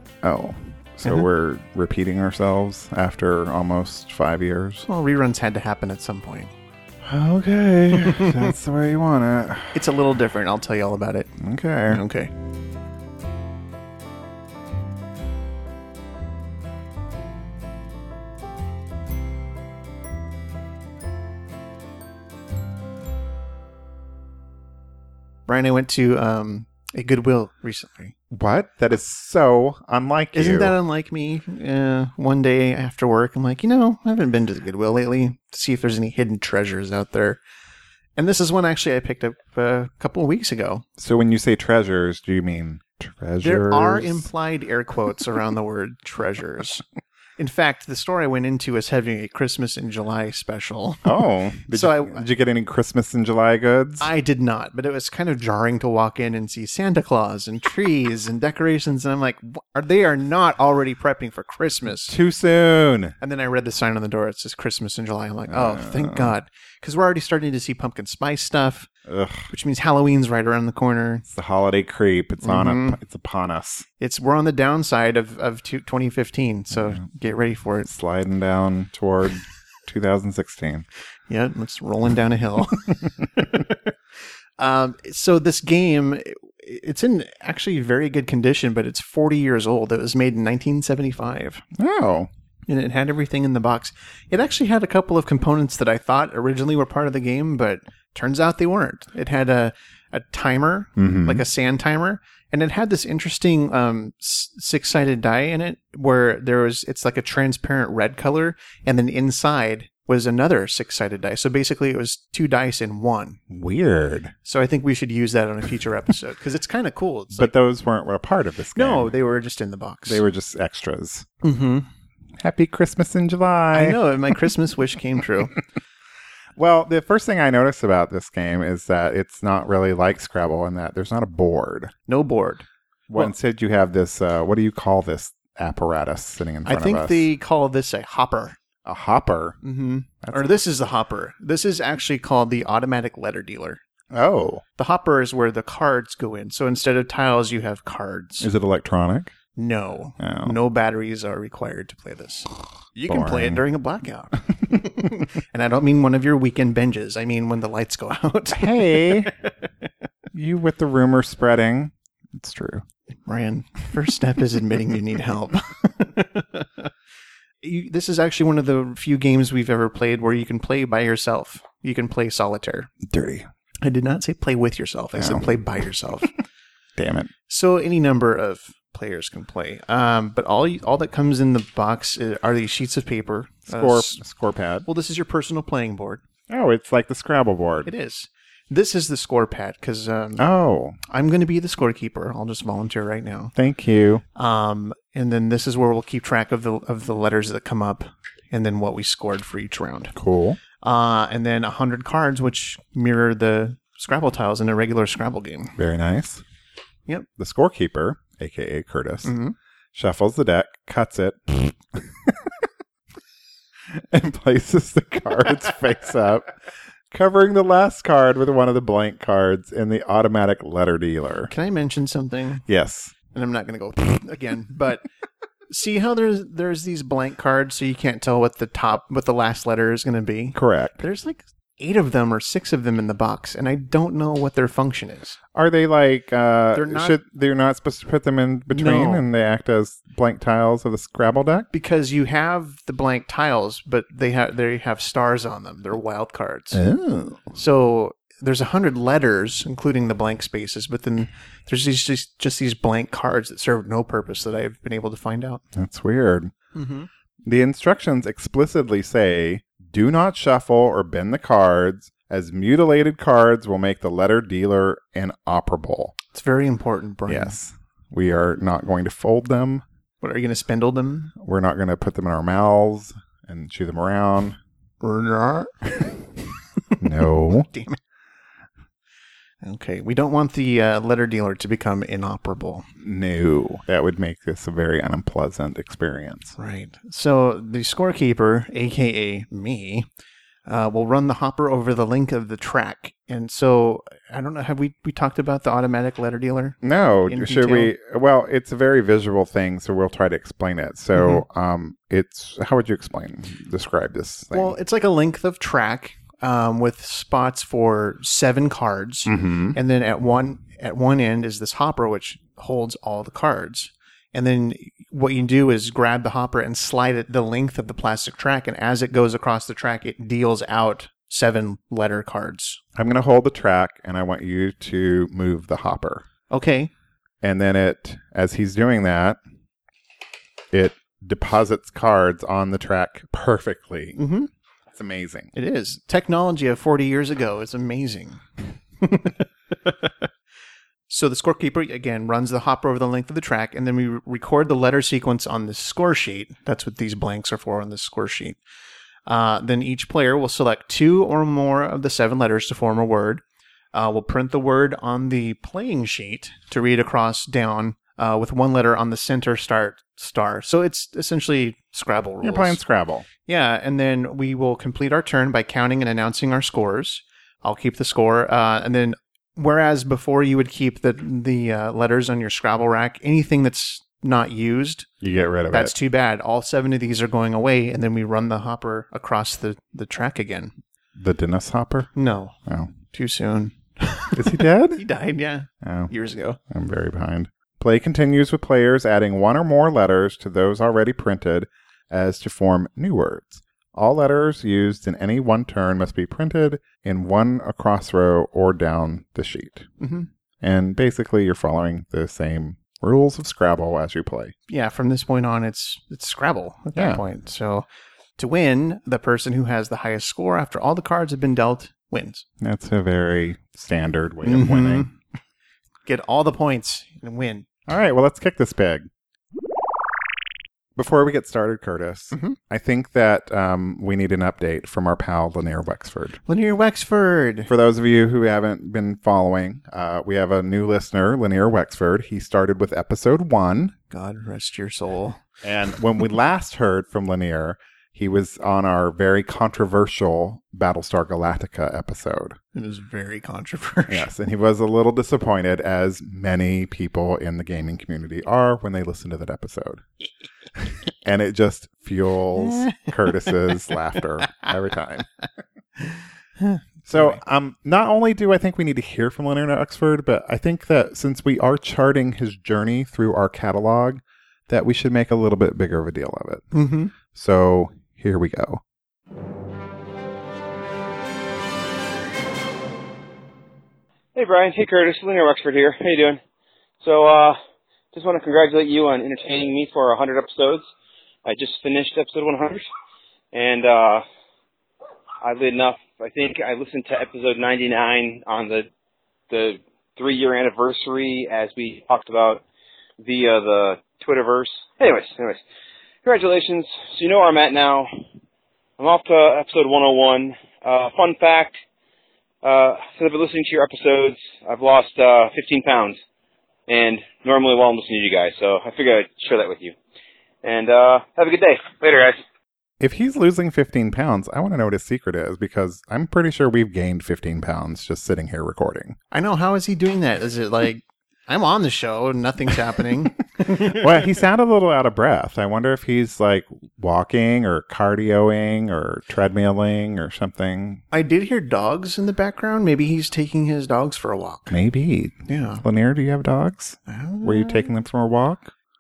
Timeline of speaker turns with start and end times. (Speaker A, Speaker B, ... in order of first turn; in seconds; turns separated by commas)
Speaker A: 0.2-4.8, Speaker B: 4.8-6.5, Speaker A: 7.0-9.8, Speaker B: 8.0-8.5, Speaker B: 9.7-11.3, Speaker A: 11.4-12.0, Speaker B: 11.9-12.3, Speaker B: 25.5-28.1, Speaker A: 28.3-30.8, Speaker B: 30.3-37.4, Speaker B: 38.1-40.9, Speaker A: 41.0-44.3, Speaker B: 43.4-46.8, Speaker B: 47.4-52.2, Speaker A: 51.0-54.1, Speaker B: 54.0-62.1, Speaker A: 62.1-63.1, Speaker B: 63.2-68.9, Speaker A: 65.5-66.3, Speaker A: 69.0-69.5, Speaker B: 69.5-71.2, Speaker A: 71.3-73.9, Speaker B: 72.4-73.0, Speaker B: 74.0-77.9, Speaker A: 77.8-80.8, Speaker B: 81.3-83.9, Speaker B: 84.6-91.6, Speaker A: 91.7-92.3, Speaker B: 92.7-113.4, Speaker A: 101.0-101.4, Speaker A: 113.5-114.3, Speaker B: 114.4-117.5, Speaker A: 117.3-119.1, Speaker B: 118.7-120.2, Speaker A: 120.1-121.3, Speaker B: 121.4-121.9, Speaker A: 122.4-124.0, Speaker B: 123.7-125.6, Speaker A: 126.5-131.9, Speaker B: 132.1-133.3, Speaker A: 133.1-137.3, Speaker B: 136.7-138.6, Speaker A: 138.8-139.6, Speaker B: 139.6-143.8, Speaker A: 140.2-140.5, Speaker A: 144.1-144.6, Speaker B: 144.8-148.5, Speaker A: 148.4-149.3, Speaker B: 149.5-159.7, Speaker A: 150.2-150.5, Speaker A: 153.1-153.6, Speaker A: 158.5-159.3, Speaker A: 160.3-162.8, Speaker B: 163.2-166.9, Speaker B: 167.6-172.9, Speaker A: 173.0-173.5, Speaker B: 173.8-176.3, Speaker A: 175.1-175.6, Speaker A: 176.9-177.3, Speaker B: 177.5-184.2, Speaker A: 183.7-184.9, Speaker B: 184.8-186.2, Speaker A: 186.5-187.9, Speaker B: 187.8-190.4, Speaker A: 190.4-191.0, Speaker B: 191.1-193.5, Speaker A: 193.5-194.2, Speaker B: 194.3-200.1, Speaker A: 200.1-200.6, Speaker B: 200.8-205.8, Speaker A: 205.8-206.4, Speaker A: 207.4-209.3, Speaker B: 209.2-209.6, Speaker A: 209.9-212.7, Speaker A: 213.9-216.6, Speaker A: 217.1-221.5, Speaker B: 221.5-222.6, Speaker A: 222.7-223.1, Speaker B: 223.3-225.0, Speaker B: 225.7-235.4, Speaker A: 230.5-231.0, Speaker A: 235.5-241.7, Speaker B: 236.7-237.2, Speaker B: 238.7-239.2, Speaker B: 241.7-246.8, Speaker A: 246.7-247.4, Speaker B: 247.5-255.6, Speaker A: 255.7-256.5, Speaker B: 256.7-257.1, Speaker A: 257.4-266.1, Speaker B: 266.3-267.6, Speaker A: 267.3-269.8, Speaker B: 270.2-271.3, Speaker A: 271.4-274.6, Speaker B: 275.0-276.2, Speaker B: 276.9-278.0, Speaker A: 277.0-277.7, Speaker B: 279.6-282.9, Speaker A: 283.0-286.5, Speaker B: 286.6-290.1, Speaker B: 290.6-297.9, Speaker A: 296.8-304.8, Speaker B: 301.1-301.4, Speaker B: 304.5-322.8, Speaker A: 309.3-309.8, Speaker A: 322.9-326.2, Speaker B: 326.5-326.9, Speaker A: 327.4-329.4, Speaker A: 330.7-334.2, Speaker B: 334.1-334.5, Speaker A: 334.9-335.5, Speaker B: 335.5-338.4, Speaker B: 339.0-340.3, Speaker B: 341.1-348.6, Speaker B: 349.2-362.8, Speaker A: 362.4-363.3, Speaker B: 363.4-375.1, Speaker A: 375.2-375.9, Speaker B: 375.7-380.7, Speaker A: 381.1-382.1, Speaker B: 382.1-382.6, Speaker A: 382.7-382.9, Speaker B: 383.1-386.6, Speaker A: 384.3-385.0, Speaker A: 385.8-386.1, Speaker A: 386.7-399.9, Speaker B: 400.0-400.3, Speaker A: 400.6-404.5, Speaker B: 404.7-412.4, Speaker A: 406.9-407.2, Speaker A: 412.6-415.1, Speaker B: 414.4-415.1, Speaker B: 416.0-417.7, Speaker A: 417.9-419.1, Speaker A: 420.9-426.4, Speaker B: 422.3-422.6, Speaker B: 426.4-427.7, Speaker A: 427.7-433.9, Speaker B: 434.1-435.4, Speaker A: 435.6-442.6, Speaker B: 442.7-444.3, Speaker A: 444.1-450.0, Speaker A: 450.8-455.3, Speaker B: 452.6-453.5, Speaker B: 456.1-457.4, Speaker A: 457.1-466.7, Speaker B: 466.7-467.1, Speaker A: 467.3-468.8, Speaker C: 474.3-476.4, Speaker C: 477.0-477.6, Speaker C: 478.1-480.8, Speaker C: 481.4-482.8, Speaker C: 483.5-484.2, Speaker C: 485.4-488.9, Speaker C: 489.5-492.6, Speaker C: 493.2-495.6, Speaker C: 496.2-498.1, Speaker C: 499.0-501.8, Speaker C: 502.6-506.2, Speaker C: 506.9-509.9, Speaker C: 510.6-512.4, Speaker A: 513.0-519.1, Speaker B: 519.3-524.0, Speaker A: 523.6-531.0, Speaker B: 531.1-534.8, Speaker A: 534.7-538.7, Speaker B: 535.5-535.8, Speaker B: 537.1-537.9